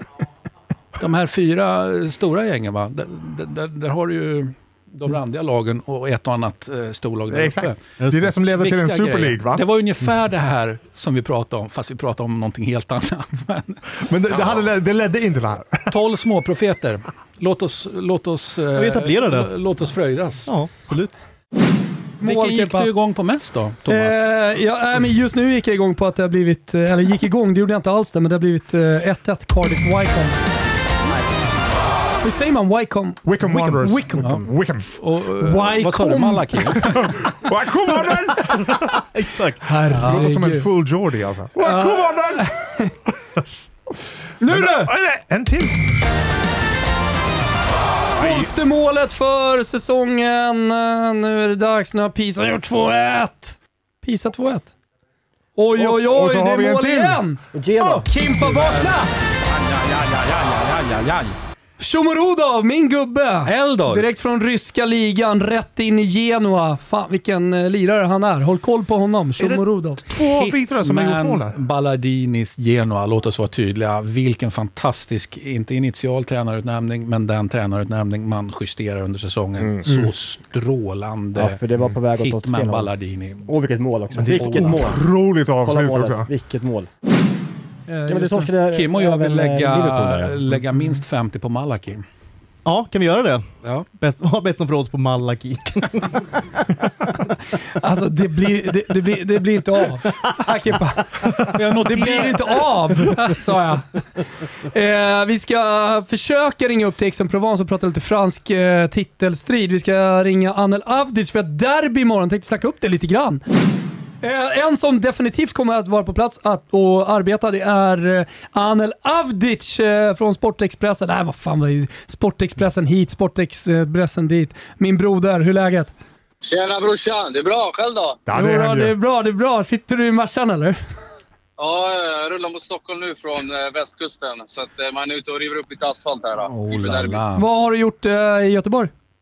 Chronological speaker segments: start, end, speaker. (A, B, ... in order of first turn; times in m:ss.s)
0:01.0-0:07.8 A
0:07.3-0:09.7 B
0:08.0-0:08.3 C
0:08.5-0:14.7 A
0:14.0-0:15.9 B
0:15.9-0:20.5 A
0:18.7-0:19.5 C
0:20.5-0:21.2 C
0:22.2-0:22.9 D
0:22.2-0:24.3 A
0:23.9-0:30.4 D
0:32.2-0:34.4 D
0:33.2-0:34.9 B
0:34.2-0:37.3 A
0:35.4-0:36.6 D
0:37.4-0:39.0 B
0:39.1-0:39.6 C
0:39.6-0:40.7 D
0:39.9-0:42.5 B
0:41.6-0:42.9 D
0:44.4-0:44.9 D
0:44.5-0:45.8 B
0:48.2-0:48.5 B
0:48.2-0:54.7 D
0:55.6-0:59.1 D
0:55.8-0:57.2 B
0:57.5-0:58.1 E
0:58.4-1:01.4 A
1:01.8-1:10.0 D
1:03.4-1:04.1 A
1:09.4-1:11.6 B
1:10.2-1:23.5 A
1:21.4-1:22.9 E
1:23.4-1:25.0 E
1:24.3-1:24.7 C
1:24.3-1:26.3 B
1:24.4-1:24.8 A
1:25.6-1:26.9 E
1:27.9-1:28.5 D
1:28.1-1:30.6 E
1:28.7-1:32.0 A
1:32.6-1:36.8 C
1:37.8-1:43.8 D
1:41.5-1:43.3 A
1:44.7-1:53.4 D
1:54.2-2:05.9 D
2:06.4-2:08.2 F
2:08.3-2:09.0 B
2:08.3-2:10.8 D
2:11.6-2:17.3 F
2:16.4-2:17.4 A
2:17.4-2:18.9 D